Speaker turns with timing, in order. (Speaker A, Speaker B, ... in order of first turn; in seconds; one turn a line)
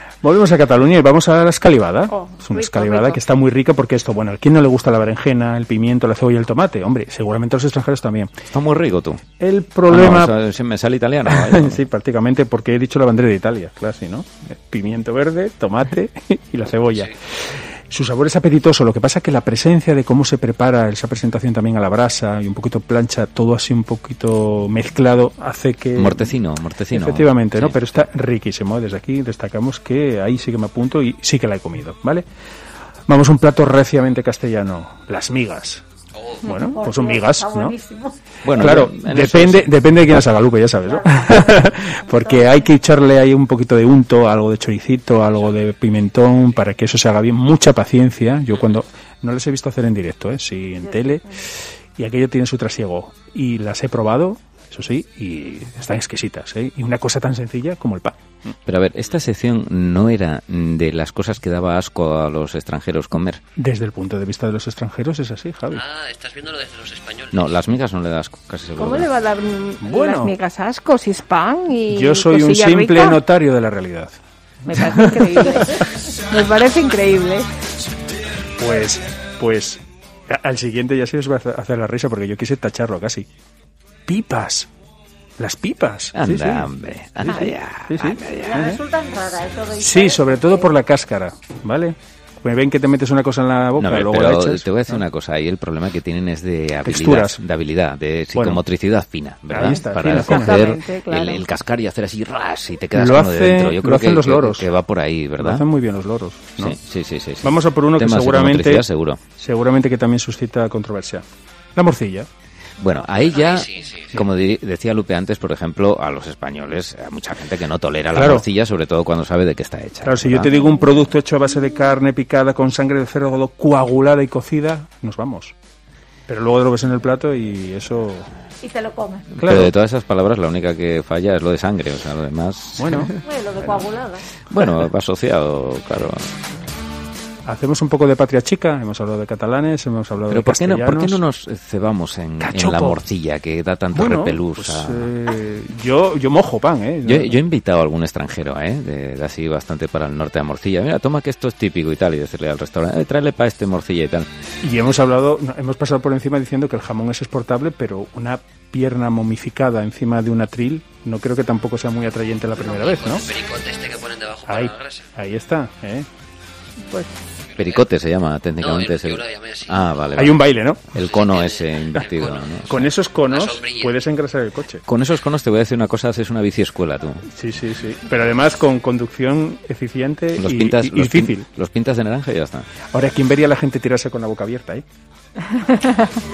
Speaker A: 0.2-8.3
Speaker B: 2.1-3.2
Speaker C: 8.5-9.2
Speaker A: 9.4-10.3
Speaker C: 9.9-11.8
Speaker A: 11.3-26.3
Speaker C: 25.9-28.1
Speaker A: 26.9-32.2
Speaker A: 33.1-35.8
Speaker D: 36.1-36.6
Speaker A: 36.4-37.7
Speaker E: 36.6-38.2
Speaker C: 38.4-39.8
Speaker A: 38.5-58.5
Speaker E: 40.9-42.6
Speaker E: 50.8-51.2
Speaker C: 58.7-63.4
Speaker A: 63.6-65.8
Speaker D: 65.7-67.6
Speaker C: 67.3-69.1
Speaker B: 68.8-73.2
Speaker A: 69.8-70.3
Speaker A: 71.9-74.2
Speaker B: 74.7-77.5
Speaker A: 74.7-75.6
Speaker A: 78.6-83.3
Speaker A: 84.1-84.7
Speaker A: 85.4-86.7
Speaker C: 86.1-88.7
Speaker A: 87.2-88.8
Speaker E: 88.3-90.7
Speaker A: 89.8-95.0
Speaker C: 93.8-105.7
Speaker A: 96.8-97.4
Speaker A: 98.3-98.6
Speaker A: 99.5-100.8
Speaker B: 99.6-101.4
Speaker A: 102.9-104.7
Speaker A: 105.4-106.8
Speaker C: 106.6-109.2
Speaker A: 107.4-111.2
Speaker A: 111.8-112.3
Speaker C: 112.8-120.5
Speaker D: 113.1-114.1
Speaker A: 118.1-118.5
Speaker A: 120.0-125.5
Speaker A: 126.3-128.3
Speaker E: 128.6-129.3
Speaker A: 129.4-129.7
Speaker C: 129.4-133.1
Speaker A: 132.8-133.1
Speaker E: 133.2-134.2
Speaker C: 134.4-136.2
Speaker A: 137.4-141.2
Speaker C: 140.3-145.1
Speaker A: 142.4-143.0
Speaker A: 143.9-147.4
Speaker C: 147.0-154.3
Speaker A: 154.6-163.3
Speaker D: 162.6-165.1
Speaker A: 164.5-166.1
Speaker D: 167.5-167.8
Speaker C: 167.6-172.9
Speaker D: 168.6-170.2
Speaker A: 170.2-170.8
Speaker D: 171.0-174.0
Speaker A: 172.7-174.8
Speaker C: 174.9-177.2
Speaker A: 177.3-181.4
Speaker C: 180.4-182.7
Speaker A: 182.9-184.8